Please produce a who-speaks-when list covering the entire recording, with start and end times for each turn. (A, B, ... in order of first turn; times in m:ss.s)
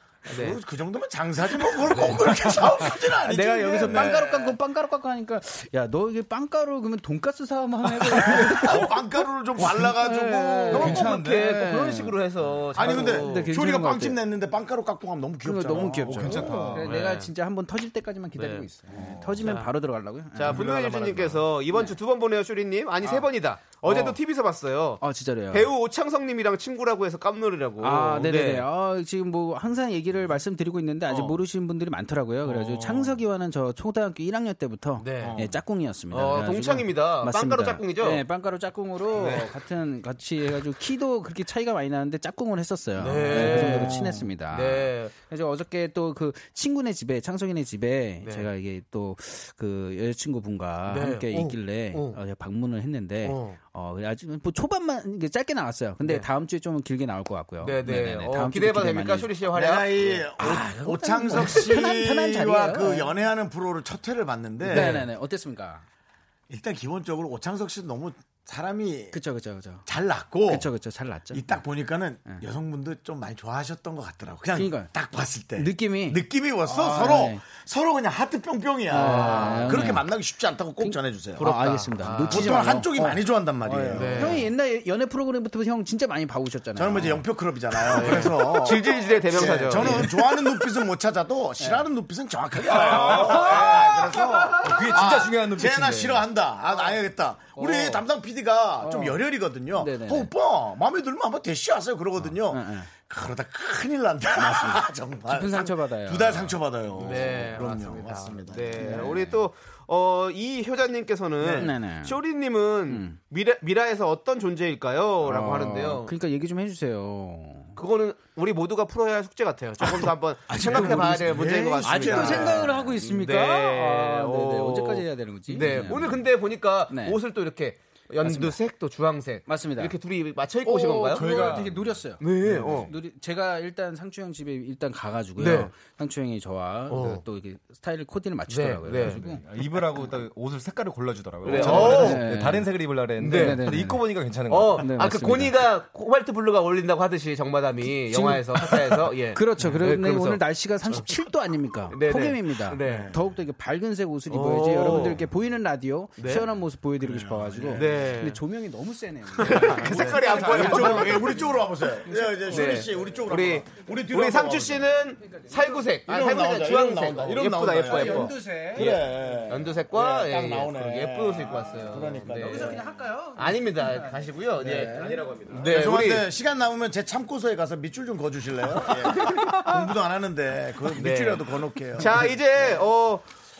0:00.3-0:00.6 A
0:00.3-0:04.5 B
0:01.8-0:02.7 A
0:02.9-0:12.1 C
0:08.1-0:11.1 B
0:10.7-0:13.5 A
0:10.9-0:11.4 D
0:12.7-0:16.7 B
0:12.8-0:14.2 C
0:15.4-0:20.7 C
0:16.1-0:16.9 D
0:16.4-0:17.3 A
0:18.4-0:19.7 A
0:19.0-0:19.3 D
0:20.4-0:28.7 A
0:20.5-0:21.4 D
0:23.9-0:24.1 C
0:25.0-0:25.7 C
0:27.8-0:59.3 C
0:35.0-0:35.4 A
0:35.2-0:35.6 B
0:36.1-0:38.2 A
0:39.2-0:39.4 B
0:43.0-0:44.0 A
0:43.3-0:44.2 B
0:44.5-0:45.1 A
0:50.9-0:52.2 A
0:53.2-0:53.6 A
0:56.0-0:56.3 A
0:57.6-1:00.3 A
0:59.5-1:05.1 B
1:00.4-1:03.1 C
1:04.6-1:05.8 C
1:04.7-1:05.0 A
1:06.5-1:09.2 B
1:09.1-1:09.8 C
1:09.8-1:10.7 B
1:10.5-1:11.6 C
1:11.3-1:21.5 B
1:14.5-1:14.9 C
1:15.6-1:17.4 C
1:18.9-1:20.0 C
1:19.0-1:19.8 A
1:20.8-1:27.2 C
1:21.4-1:22.6 A
1:22.3-1:24.4 B
1:23.9-1:24.5 A
1:26.8-1:49.2 B
1:27.9-1:30.1 A
1:31.6-1:31.8 C
1:32.7-1:36.2 D
1:33.0-1:33.9 C
1:37.5-1:38.0 C
1:38.8-1:40.3 C
1:42.4-1:42.9 C
1:44.4-1:46.6 C
1:47.0-1:56.1 A
1:48.8-1:49.4 C
1:51.4-1:51.7 B
1:51.6-1:52.2 C
1:52.9-1:53.2 C
1:55.2-1:57.8 C
1:57.8-2:11.3 A
2:00.5-2:02.7 B
2:00.6-2:01.0 C
2:01.8-2:06.2 C
2:06.9-2:07.2 C
2:08.2-2:08.6 C
2:09.5-2:10.0 C
2:10.6-2:12.2 C
2:11.1-2:11.9 D
2:12.2-2:12.9 A
2:12.5-2:12.9 D
2:12.8-2:19.4 C
2:15.4-2:15.7 A
2:16.9-2:17.2 A
2:18.5-2:19.2 A
2:19.0-2:25.0 D
2:21.4-2:22.2 A
2:21.5-2:24.0 C
2:23.2-2:23.7 A
2:24.5-2:31.1 A
2:24.8-2:25.6 C
2:29.3-2:41.4 C
2:31.9-2:33.1 A
2:32.8-2:33.2 B
2:34.3-2:35.2 A
2:36.2-2:36.5 A
2:37.0-2:38.1 B
2:37.7-2:38.4 A
2:39.4-2:41.3 A
2:39.8-2:44.9 B
2:42.0-2:42.9 C
2:42.5-2:52.8 A
2:45.2-2:45.8 C
2:46.1-2:52.8 B
2:47.9-2:48.9 C
2:52.4-2:54.3 C
2:53.4-2:56.3 A
2:54.6-3:02.3 B
2:54.8-2:55.7 D
2:59.2-2:59.6 C
3:00.9-3:03.2 A